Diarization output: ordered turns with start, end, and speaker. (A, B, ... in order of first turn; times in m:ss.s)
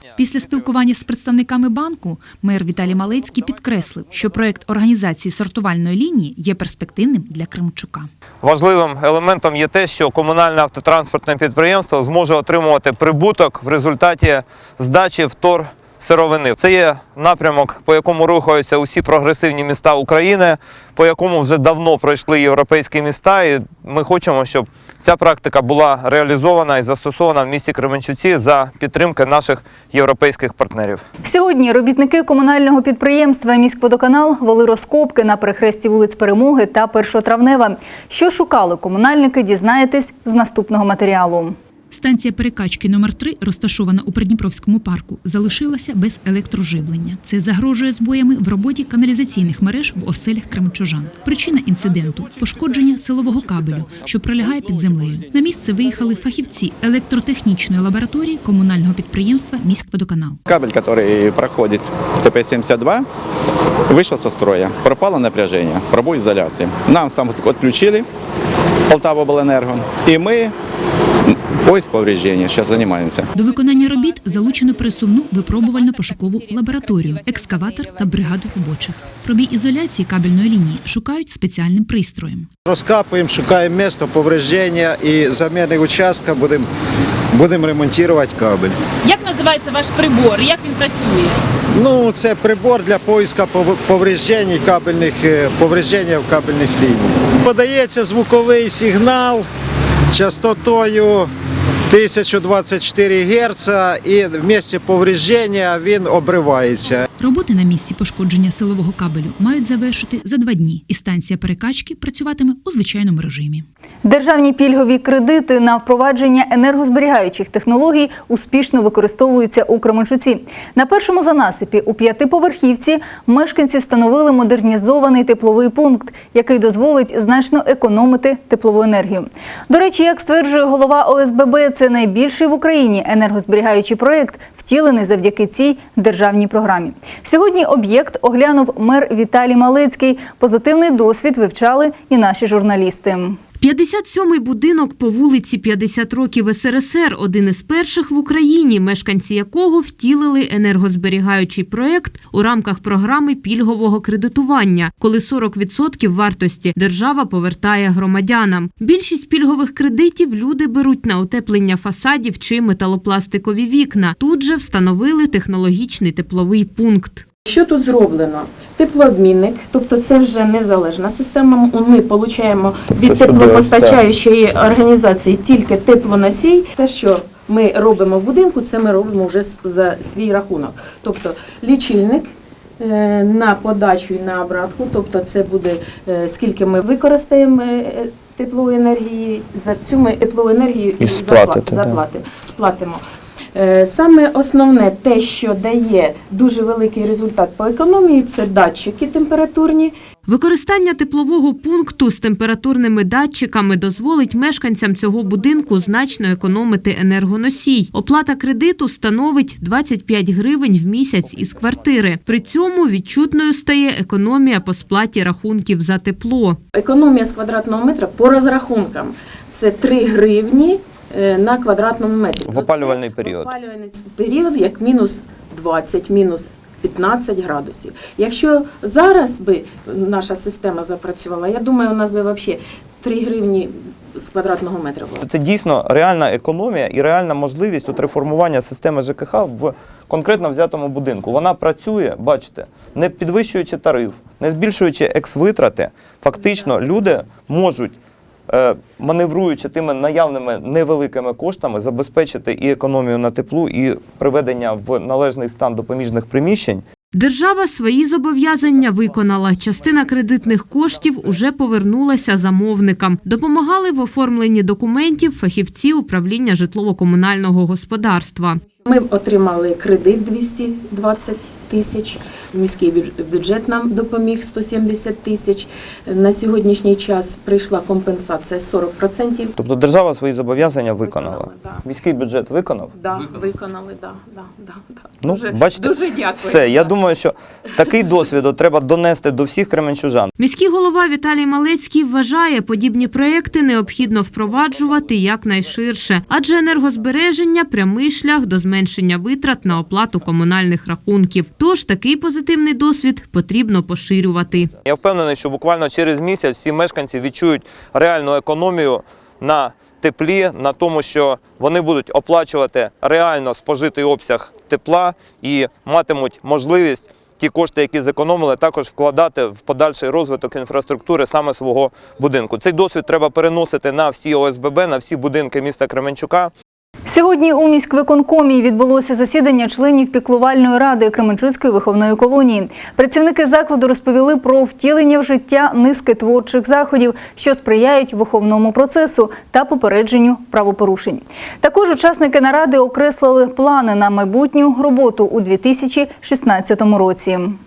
0:00.2-0:08.1 A
0:08.4-0:31.0 B
0:31.2-0:41.6 C
0:41.9-1:00.4 A
1:00.5-1:03.1 D
1:03.9-1:08.1 D
1:08.9-1:10.5 D
1:11.3-1:13.3 D
1:13.4-1:22.5 A
1:22.7-1:26.7 E
1:27.3-1:28.8 E
1:29.0-1:31.4 F
1:31.8-1:39.4 E
1:40.1-1:41.3 E
1:41.9-1:47.1 E
1:47.2-1:53.7 A
1:54.0-2:23.4 C
2:23.6-2:47.2 G
2:47.5-3:13.0 H
2:53.0-2:54.0 B
3:11.0-3:12.0 B
3:13.6-3:19.9 H
3:20.3-3:36.6 G
3:36.7-3:55.2 H
3:42.5-3:43.5 B
3:55.2-4:08.0 B
4:08.5-4:16.8 B
4:17.1-4:28.6 G
4:28.8-4:39.5 H
4:39.6-4:42.9 B
4:41.0-4:41.8 H
4:43.0-4:47.0 H
4:45.2-4:50.3 B
4:50.4-5:04.7 G
5:04.8-5:26.5 B
5:27.1-5:47.6 C